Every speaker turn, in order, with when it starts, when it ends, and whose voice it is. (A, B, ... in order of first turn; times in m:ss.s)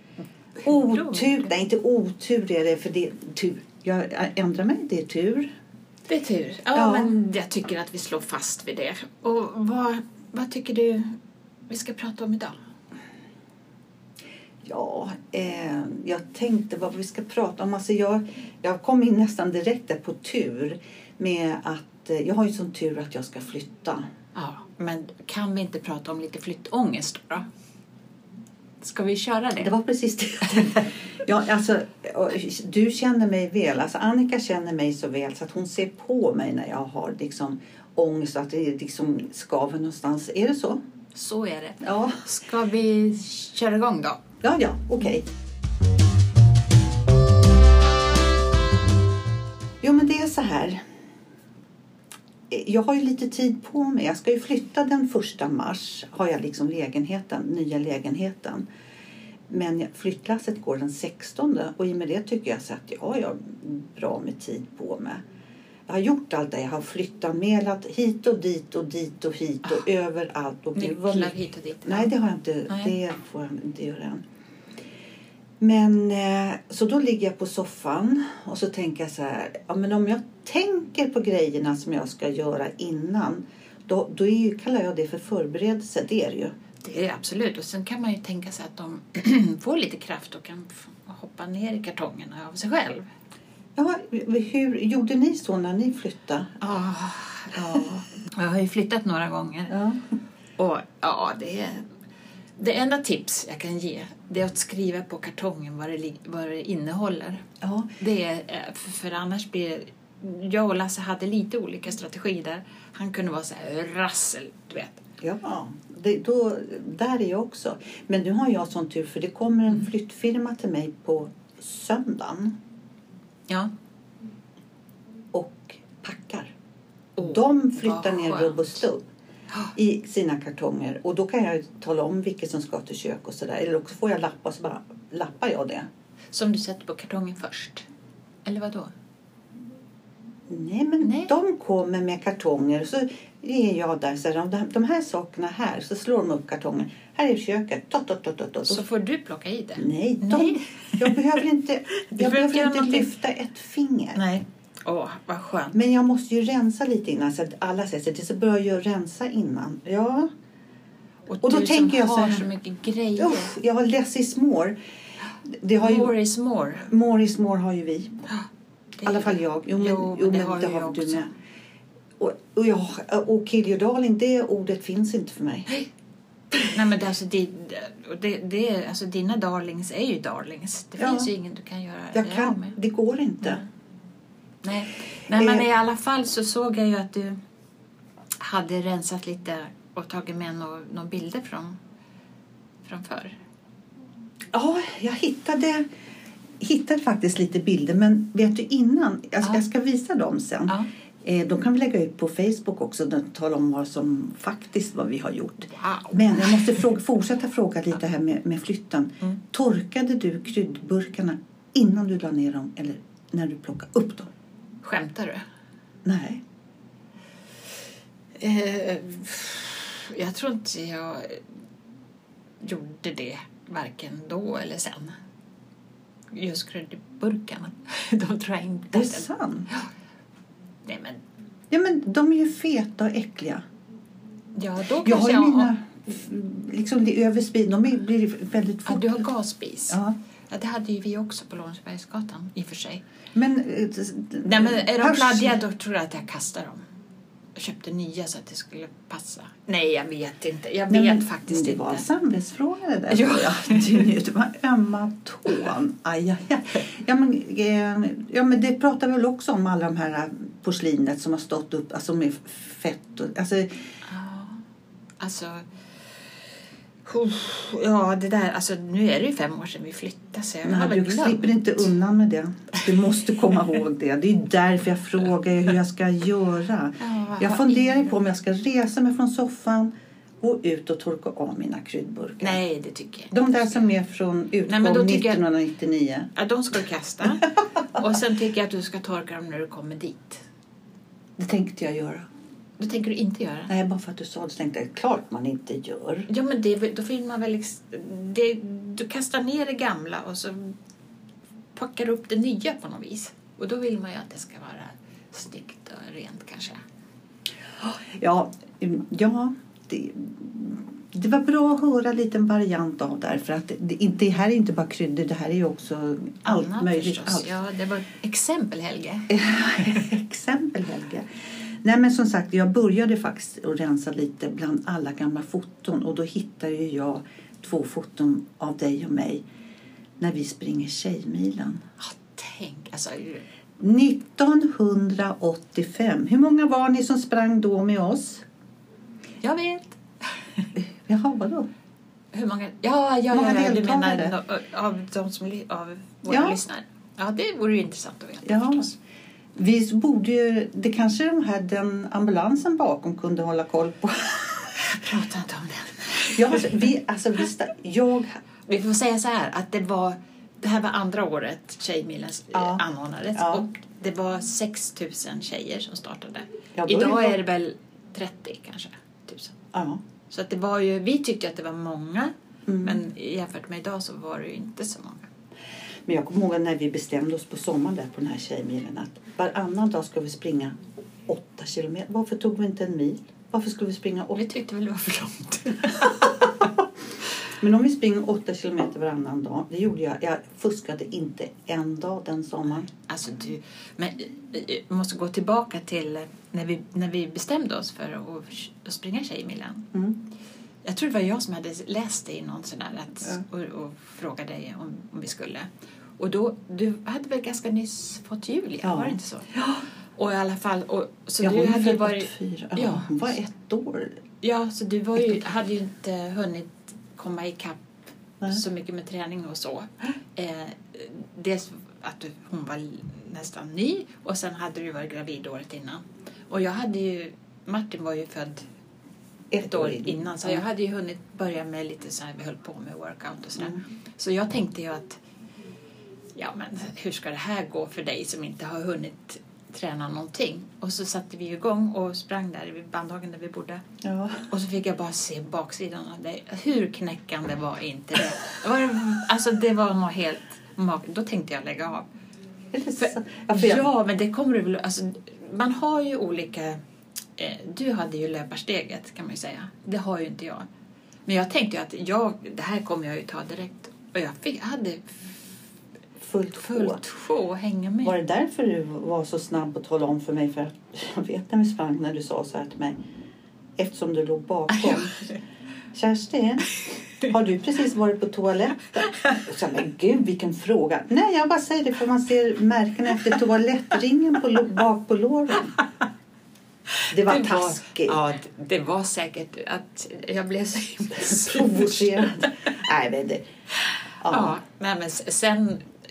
0:00.6-0:01.5 A
0:00.6-0:05.5 B
0:06.1-0:11.2 A
0:06.7-0:07.1 B
0:11.7-0:12.6 A
0:14.6-0:24.1 B
0:24.3-0:27.5 A
0:28.8-0:29.7 A
0:29.6-0:40.8 B
0:41.1-0:44.2 A
0:41.8-0:42.3 B
0:44.4-0:45.2 B
0:49.8-0:50.8 B
0:52.5-0:58.6 B
0:59.5-1:05.2 B
1:05.9-1:14.2 B
1:10.8-1:12.1 A
1:15.6-1:26.5 B
1:26.8-1:33.1 A
1:33.8-1:36.6 B
1:36.6-1:39.8 A
1:39.7-1:40.0 B
1:40.6-1:41.8 A
1:42.6-1:47.4 A
1:47.6-1:47.9 B
1:48.0-1:55.0 A
1:55.2-2:02.5 B
2:05.3-2:06.5 B
2:07.2-2:08.8 A
2:07.2-2:09.0 B
2:09.7-2:15.9 B
2:16.3-2:17.8 A
2:18.4-2:18.9 A
2:20.5-2:28.8 B
2:21.0-2:21.3 A
2:28.6-2:31.2 A
2:29.8-2:34.2 B
2:32.1-2:33.1 A
2:34.1-2:35.8 A
2:35.7-2:40.3 B
2:41.3-2:43.5 A
2:41.4-2:42.4 B
2:43.2-2:44.8 B
2:45.4-2:46.1 B
2:45.8-2:46.9 A
2:46.9-2:48.2 B
2:49.0-2:51.3 A
2:49.0-2:51.3 B
2:52.2-2:55.8 B
2:56.6-3:02.7 A
3:01.0-3:01.3 B
3:02.1-3:03.6 B
3:04.6-3:07.4 A
3:05.3-3:05.6 B
3:08.4-3:11.8 A
3:12.8-3:13.3 A
3:14.5-3:15.9 B
3:16.6-3:34.3 B
3:25.7-3:26.8 A
3:34.8-3:35.4 A
3:36.0-3:36.4 B
3:38.4-3:41.4 A
3:42.6-3:45.2 A
3:46.3-3:49.9 A
3:48.9-3:49.7 B
3:50.8-3:51.2 A
3:51.7-3:53.6 B
3:54.5-3:55.7 A
3:55.0-3:59.2 B
3:58.8-4:00.0 A
3:59.9-4:00.1 B
4:00.5-4:03.0 A
4:03.3-4:05.6 B
4:04.4-4:06.8 A
4:07.5-4:12.0 A
4:10.9-4:23.8 B
4:13.1-4:14.1 A
4:24.0-4:24.6 A
4:25.2-4:25.6 A
4:27.0-4:31.6 A
4:30.6-4:42.6 B
4:37.0-4:38.1 A
4:42.4-4:43.8 A
4:43.3-4:46.3 B
4:44.7-4:45.4 A
4:46.3-4:50.4 A
4:51.4-4:52.3 B
4:52.8-4:53.7 A
4:53.7-4:56.3 B
4:56.3-5:00.8 A
5:01.7-5:06.8 A
5:07.8-5:17.5 B
5:16.4-5:19.3 A
5:19.3-5:21.2 B
5:21.8-5:29.4 B
5:30.2-5:31.8 B
5:32.0-5:33.4 A
5:33.8-5:38.4 B
5:39.4-5:40.7 A
5:40.8-5:41.7 B
5:42.3-5:48.9 A
5:43.3-5:44.3 B
5:46.3-5:46.6 B
5:48.4-5:48.9 B
5:49.6-5:54.8 B
5:54.9-5:56.9 A
5:56.3-5:58.4 B
5:58.6-6:09.6 A
6:02.5-6:02.8 B
6:03.3-6:03.6 B
6:06.7-6:07.4 B
6:09.7-6:10.0 B
6:10.3-6:15.3 A
6:12.7-6:13.0 B
6:16.1-6:20.7 B
6:21.3-6:24.4 B
6:24.3-6:26.7 A
6:26.2-6:26.7 B
6:27.6-6:32.9 B
6:33.0-6:39.9 A
6:39.9-6:40.2 B
6:40.8-6:49.5 A
6:48.8-6:49.8 B
6:50.2-6:53.1 A
6:51.4-6:54.2 B
6:54.4-6:57.8 A
6:58.5-7:08.6 A
7:09.5-7:10.6 B
7:09.6-7:15.2 A
7:16.3-7:23.8 A
7:24.0-7:24.5 B
7:24.5-7:32.1 A
7:32.7-7:33.9 B
7:33.0-7:36.8 A
7:37.4-7:40.6 A
7:41.2-7:45.2 A
7:46.2-7:47.0 B
7:46.6-7:48.2 A
7:48.0-7:53.0 B
7:53.8-7:55.3 B
7:54.8-7:55.2 A
7:55.9-8:05.8 B
8:07.1-8:08.2 B
8:07.1-8:12.5 A
8:11.2-8:13.4 B
8:13.8-8:15.9 A
8:14.2-8:14.6 B